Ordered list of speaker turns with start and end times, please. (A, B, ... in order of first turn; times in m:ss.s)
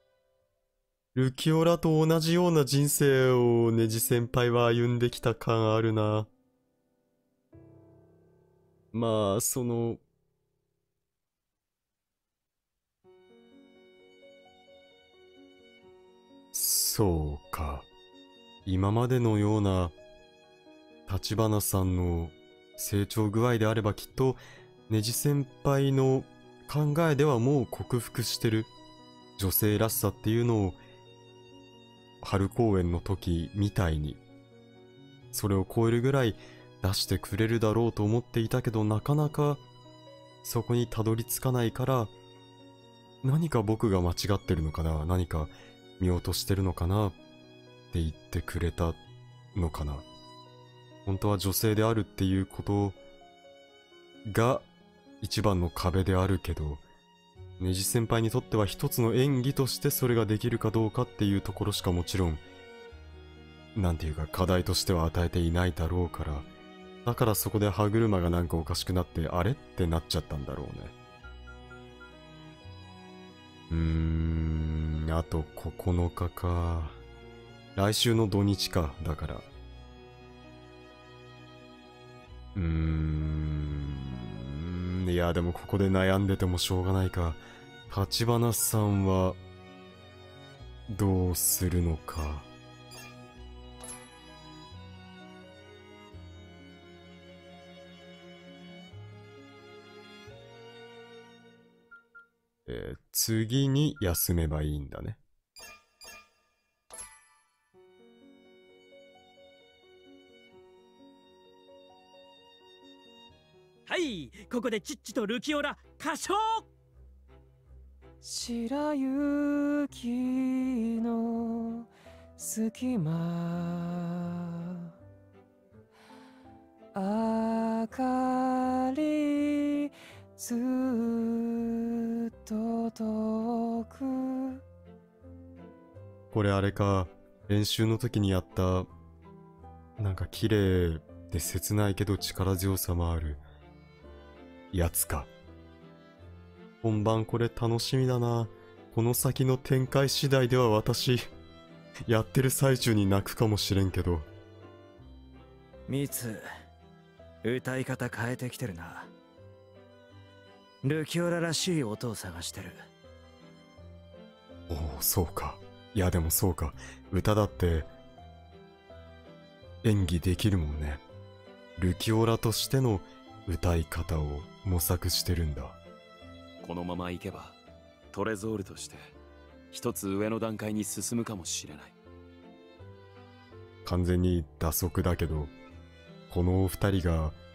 0:01.1-0:06.3 A
0:08.9-0:10.0 A
0:16.5-0:17.9 A
0:18.6-0:19.9 A
0:21.1-0:28.7 A
0:29.4-0:30.8 A
0:32.2-0:34.2 A
0:35.3-0:39.6 A
0:40.4-0:42.1 A
0:43.2-0:47.2 A
0:47.9-0:49.0 A
0:49.5-0:50.1 A
0:51.0-0:53.0 A
0:54.2-0:54.7 A
0:55.2-0:56.8 A
0:57.6-1:02.4 A
1:03.7-1:06.5 A
1:07.0-1:10.9 A
1:13.7-1:17.0 A
1:17.8-1:19.5 A
1:22.5-1:29.4 A
1:30.9-1:32.5 A
1:42.6-1:45.2 A
1:53.8-1:56.7 B
1:58.2-2:04.9 C
2:06.9-2:14.6 C
2:16.3-2:18.9 A
2:20.0-2:23.4 A
2:24.7-2:25.3 A
2:26.8-2:31.2 A
2:32.1-2:34.3 A
2:35.9-2:36.4 D
2:37.4-2:39.1 D
2:40.8-2:42.8 D
2:44.7-2:47.9 A
2:49.8-2:51.0 A
2:51.8-2:55.8 A
2:56.6-2:57.6 E
2:58.1-2:59.1 E
2:59.7-3:01.9 E
3:03.8-3:05.5 A
3:06.3-3:07.4 A